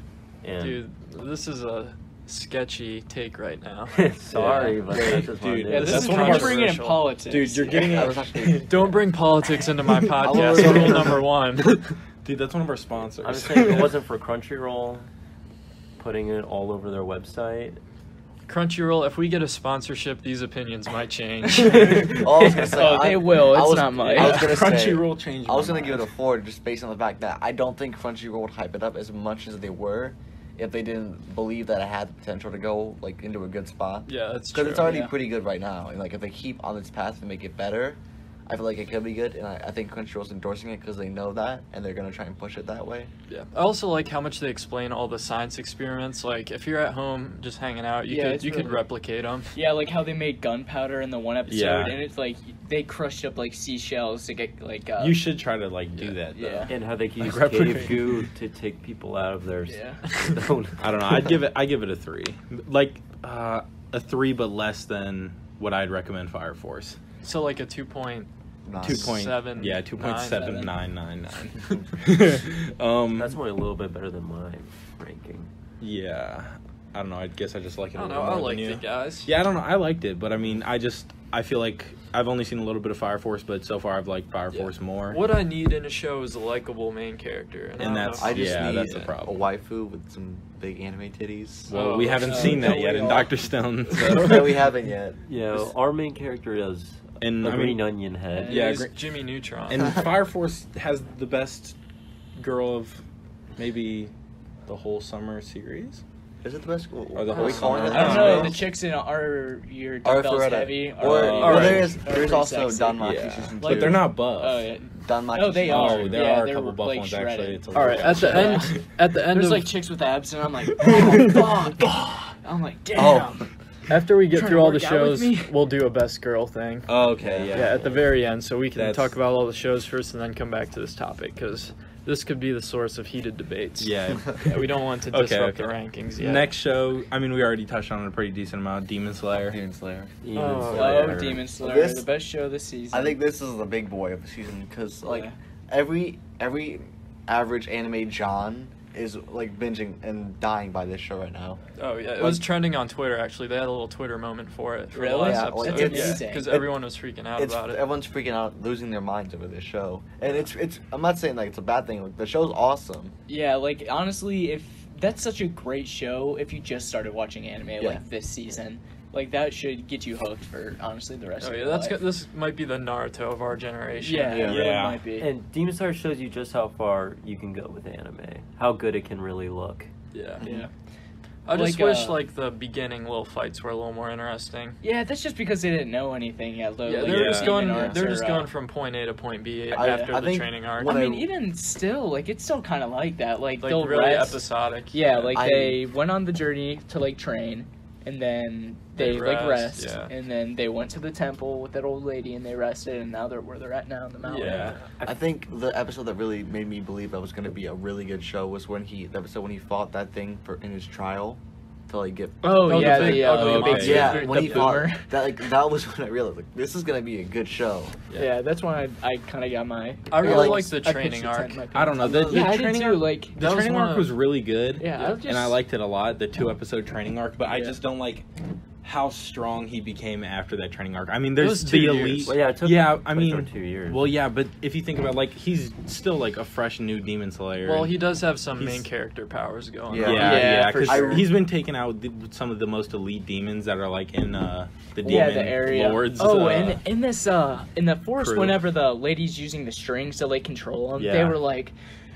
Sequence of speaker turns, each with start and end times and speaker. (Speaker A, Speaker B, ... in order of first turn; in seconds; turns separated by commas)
Speaker A: 0.4-0.8, Speaker B: 0.6-4.8, Speaker A: 3.9-6.1, Speaker C: 4.3-8.7, Speaker D: 5.7-8.1, Speaker B: 5.7-7.1, Speaker E: 7.9-8.9, Speaker B: 8.6-12.0, Speaker E: 10.2-11.2, Speaker C: 10.4-10.7, Speaker C: 12.2-14.0, Speaker A: 13.2-15.1, Speaker A: 16.0-17.8, Speaker B: 18.5-22.3, Speaker C: 21.7-22.0, Speaker D: 21.7-24.6, Speaker E: 22.1-43.1, Speaker C: 24.1-26.1, Speaker B: 34.1-35.0, Speaker D: 34.8-35.1, Speaker B: 43.3-49.6, Speaker D: 48.1-48.8, Speaker D: 49.5-55.2, Speaker C: 51.5-52.0, Speaker C: 55.0-58.1, Speaker D: 56.0-56.7, Speaker A: 56.7-61.1, Speaker D: 59.7-60.0, Speaker C: 60.8-67.0, Speaker B: 67.2-68.3, Speaker E: 68.7-69.2, Speaker B: 68.8-70.7, Speaker C: 68.8-73.4, Speaker A: 73.2-75.5, Speaker C: 75.8-85.2, Speaker B: 78.0-79.3, Speaker B: 84.5-89.1, Speaker C: 87.8-89.4, Speaker E: 88.2-91.7, Speaker C: 91.7-94.6, Speaker B: 91.7-92.7, Speaker D: 92.2-93.5, Speaker E: 94.0-95.2, Speaker A: 95.3-98.7, Speaker C: 97.2-97.9, Speaker D: 98.3-98.7, Speaker B: 98.5-99.9, Speaker C: 98.5-99.0, Speaker C: 99.7-101.8, Speaker C: 102.4-103.0, Speaker C: 103.6-104.1, Speaker C: 104.7-106.0, Speaker E: 106.4-108.6, Speaker C: 107.1-108.6, Speaker B: 107.4-108.3, Speaker D: 107.4-123.5, Speaker E: 110.0-114.1, Speaker C: 111.0-112.0, Speaker B: 111.4-111.9, Speaker C: 113.0-114.7, Speaker E: 115.0-116.2, Speaker C: 115.7-118.8, Speaker B: 117.7-119.7, Speaker C: 120.8-121.9, Speaker E: 123.0-123.4, Speaker B: 123.9-126.9, Speaker D: 124.3-125.5, Speaker C: 126.9-127.8, Speaker A: 127.2-128.1, Speaker B: 127.5-136.5, Speaker C: 128.8-129.1, Speaker C: 133.8-134.6, Speaker C: 135.1-139.6, Speaker E: 139.5-140.1, Speaker A: 140.2-141.4, Speaker B: 140.3-141.2, Speaker D: 140.7-143.2, Speaker E: 141.6-142.1, Speaker E: 142.9-151.6, Speaker D: 145.0-145.3, Speaker B: 151.8-157.8, Speaker E: 152.2-152.4, Speaker D: 154.9-156.6, Speaker E: 155.2-156.8, Speaker E: 157.4-163.1, Speaker D: 163.3-172.0, Speaker B: 171.4-174.5, Speaker D: 174.0-175.3, Speaker E: 174.3-174.6, Speaker C: 174.4-175.0, Speaker A: 175.2-179.9, Speaker B: 180.1-180.4, Speaker E: 180.4-180.7, Speaker D: 180.4-180.7, Speaker B: 181.5-184.8, Speaker D: 181.5-182.2, Speaker D: 184.8-188.5, Speaker B: 186.9-190.9, Speaker C: 187.0-187.8, Speaker E: 187.7-188.0, Speaker E: 189.7-191.3, Speaker D: 189.8-190.1, Speaker D: 190.8-204.8, Speaker B: 193.6-195.3, Speaker E: 195.3-195.8, Speaker B: 199.0-200.1, Speaker B: 204.2-204.8, Speaker C: 204.4-204.8, Speaker E: 205.0-218.0, Speaker D: 212.4-215.5, Speaker B: 212.6-214.8, Speaker C: 213.3-214.3, Speaker D: 218.1-223.4, Speaker B: 220.1-221.7, Speaker E: 220.2-220.6, Speaker C: 221.7-228.3, Speaker E: 222.0-222.5, Speaker B: 223.4-224.1, Speaker D: 224.8-225.6, Speaker D: 227.4-227.8, Speaker C: 228.8-238.0, Speaker B: 231.4-232.3, Speaker A: 232.3-234.1, Speaker B: 237.6-240.5, Speaker C: 238.6-238.9, Speaker E: 239.9-241.3, Speaker C: 239.9-246.8, Speaker D: 240.1-241.3, Speaker D: 245.0-251.7, Speaker C: 248.2-248.7, Speaker C: 251.0-251.4